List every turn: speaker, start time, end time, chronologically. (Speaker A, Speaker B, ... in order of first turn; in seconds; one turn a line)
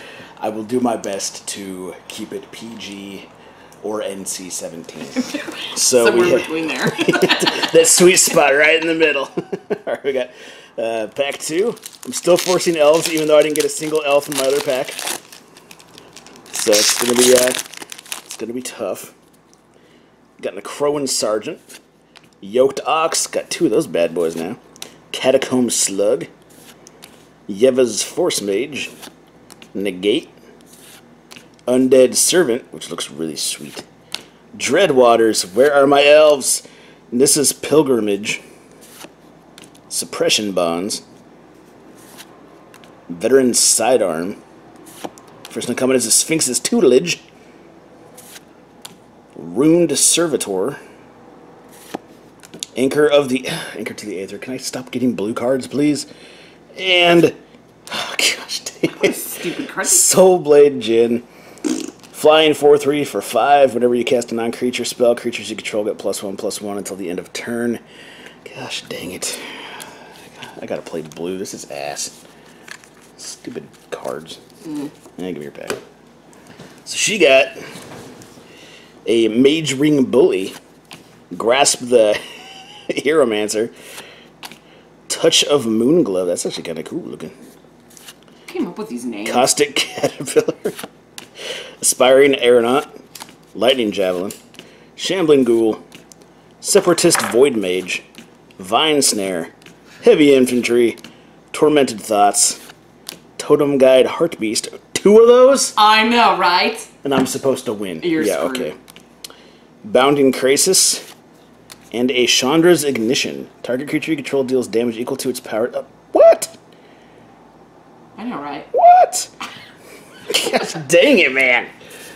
Speaker A: 0.4-3.3
Speaker A: 3.8-15.0
Speaker B: 5.3-7.7
Speaker A: 16.5-17.6
Speaker A: 18.2-19.2
Speaker A: 20.4-21.6
Speaker A: 22.4-24.6
Speaker A: 25.1-26.3
Speaker A: 27.5-28.9
Speaker A: 29.7-30.4
Speaker A: 31.7-33.9
Speaker A: 34.6-38.4
Speaker A: 39.9-41.0
Speaker A: 43.1-44.4
Speaker A: 45.5-47.2
Speaker A: 49.3-50.8
Speaker A: 52.8-56.1
Speaker A: 56.8-57.4
Speaker A: 57.9-61.2
Speaker B: 58.9-60.1
Speaker A: 62.1-67.8
Speaker A: 68.5-69.8
Speaker A: 70.4-72.2
Speaker A: 73.2-74.4
Speaker A: 75.2-75.8
Speaker A: 76.8-77.6
Speaker A: 79.1-80.6
Speaker A: 81.3-82.2
Speaker A: 82.9-83.7
Speaker A: 85.1-87.3
Speaker B: 88.5-89.5
Speaker A: 89.2-90.8
Speaker A: 91.8-92.9
Speaker A: 93.5-94.3
Speaker A: 95.0-95.8
Speaker A: 96.6-98.0
Speaker A: 98.6-101.0
Speaker A: 101.5-102.6
Speaker A: 103.4-105.8
Speaker B: 105.8-106.9
Speaker A: 107.0-108.8
Speaker B: 108.0-108.7
Speaker A: 109.8-111.1
Speaker A: 111.9-116.5
Speaker B: 118.2-118.7
Speaker A: 118.7-119.3
Speaker A: 120.3-121.7